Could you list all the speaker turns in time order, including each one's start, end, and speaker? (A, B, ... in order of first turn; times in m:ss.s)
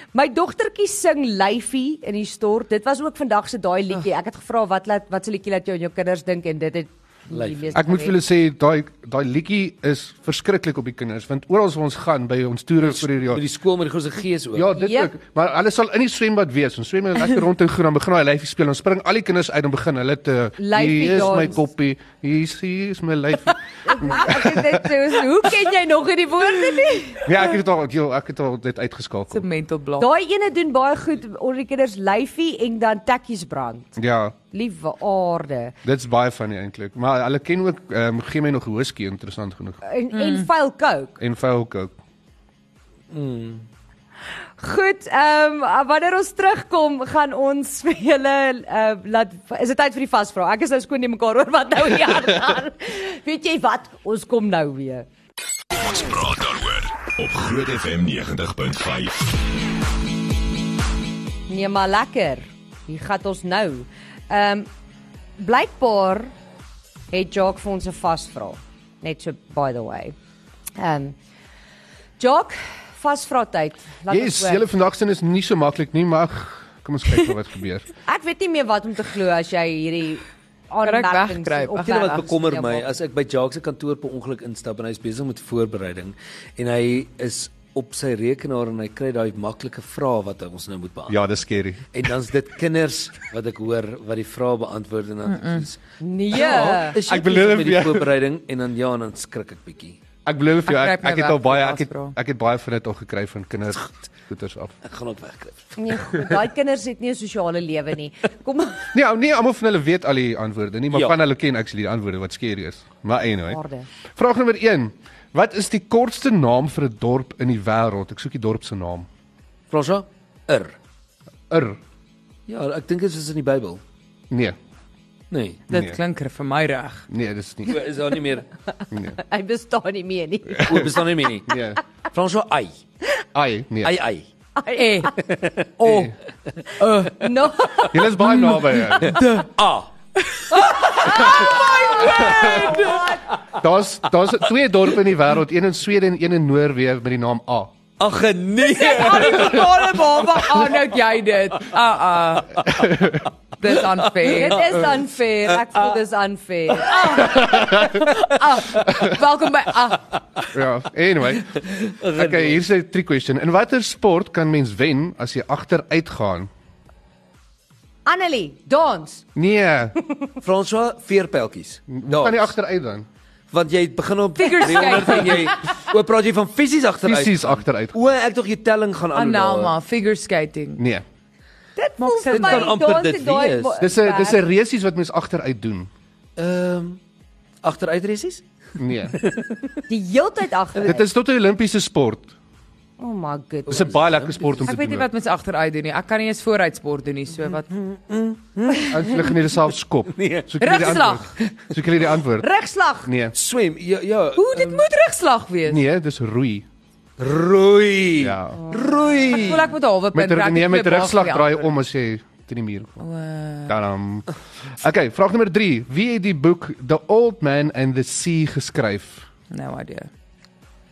0:00.1-0:08.2 A
0:07.3-0:07.7 B
0:07.7-0:13.4 C
0:12.8-0:14.7 B
0:14.6-0:24.9 C
0:14.8-0:15.1 A
0:20.6-0:21.6 A
0:23.8-0:27.5 A
0:27.2-0:29.4 C
0:29.3-0:30.1 D
0:30.0-0:34.0 A
0:34.0-0:34.4 C
0:34.5-0:35.8 A
0:35.8-0:39.8 C
0:39.8-0:41.2 A
0:40.1-0:40.5 D
0:41.2-0:41.9 C
0:43.1-0:43.7 B
0:44.6-0:55.1 A
0:55.8-0:59.4 E
1:01.5-1:04.7 A
1:05.4-1:06.3 A
1:07.1-1:10.2 A
1:10.8-1:11.2 A
1:12.2-1:14.6 A
1:14.1-1:17.9 C
1:18.1-1:22.9 A
1:20.8-1:22.3 D
1:21.9-1:31.2 B
1:31.1-1:31.9 C
1:31.9-1:35.8 B
1:35.3-1:35.7 D
1:36.0-1:37.0 A
1:36.3-1:38.1 C
1:36.3-1:40.0 B
1:40.3-1:44.7 C
1:40.7-1:42.2 D
1:44.8-1:46.4 B
1:45.8-1:48.9 A
1:48.9-1:53.6 C
1:53.5-1:53.9 A
1:54.2-1:59.1 C
1:59.7-2:00.8 B
2:01.5-2:01.8 C
2:02.5-2:03.8 B
2:04.3-2:04.6 C
2:05.3-2:05.6 B
2:05.7-2:07.1 D
2:05.7-2:06.0 C
2:07.1-2:07.8 C
2:07.7-2:08.5 B
2:08.9-2:09.2 C
2:09.1-2:11.1 A
2:10.5-2:10.9 C
2:10.6-2:11.6 B
2:11.5-2:11.8 C
2:12.1-2:12.8 B
2:13.3-2:14.0 C
2:13.8-2:14.3 B
2:14.6-2:15.2 A
2:14.8-2:15.1 D
2:15.2-2:16.1 B
2:15.8-2:16.1 D
2:15.9-2:16.1 C
2:16.8-2:19.5 D
2:16.8-2:18.1 A
2:17.9-2:19.2 C
2:19.0-2:19.9 B
2:20.2-2:23.0 D
2:20.5-2:23.6 B
2:20.8-2:23.2 A
2:22.0-2:22.8 C
2:23.6-2:27.7 C
2:28.0-2:30.9 B
2:28.7-2:32.8 D
2:28.8-2:30.4 A
2:32.6-2:33.3 C
2:33.6-2:34.9 D
2:33.6-2:36.0 B
2:34.2-2:37.4 A
2:36.8-2:37.3 B
2:36.9-2:40.2 D
2:37.2-2:38.0 C
2:38.8-2:39.2 C
2:40.5-2:41.6 C
2:41.5-2:42.6 B
2:42.1-2:46.5 C
2:48.1-2:49.2 A
2:49.4-2:50.0 C
2:50.4-2:52.5 B
2:51.9-2:53.1 C
2:53.5-2:59.7 B
2:54.4-2:55.7 D
2:54.5-2:55.3 A
2:57.0-2:58.0 C
2:59.1-3:00.8 D
3:00.8-3:01.0 C
3:01.8-3:04.4 A
3:02.0-3:02.8 D
3:02.3-3:03.8 B
3:03.8-3:05.9 C
3:06.4-3:07.0 B
3:07.6-3:08.4 B
3:08.8-3:09.2 C
3:09.0-3:09.5 B
3:09.9-3:11.0 A
3:10.8-3:12.3 C
3:13.0-3:14.0 A
3:13.7-3:15.1 C
3:13.7-3:14.7 B
3:14.6-3:17.7 D
3:17.6-3:19.5 B
3:18.9-3:22.5 C
3:20.1-3:20.5 B
3:20.6-3:21.4 D
3:22.4-3:23.1 A
3:23.0-3:23.4 C
3:23.3-3:24.9 B
3:24.4-3:25.8 D
3:25.7-3:26.6 C
3:27.2-3:29.7 B
3:28.2-3:28.6 C
3:28.6-3:29.3 A
3:29.3-3:31.7 D
3:30.1-3:33.0 C
3:33.0-3:33.8 D
3:33.7-3:39.3 C
3:39.5-3:40.1 D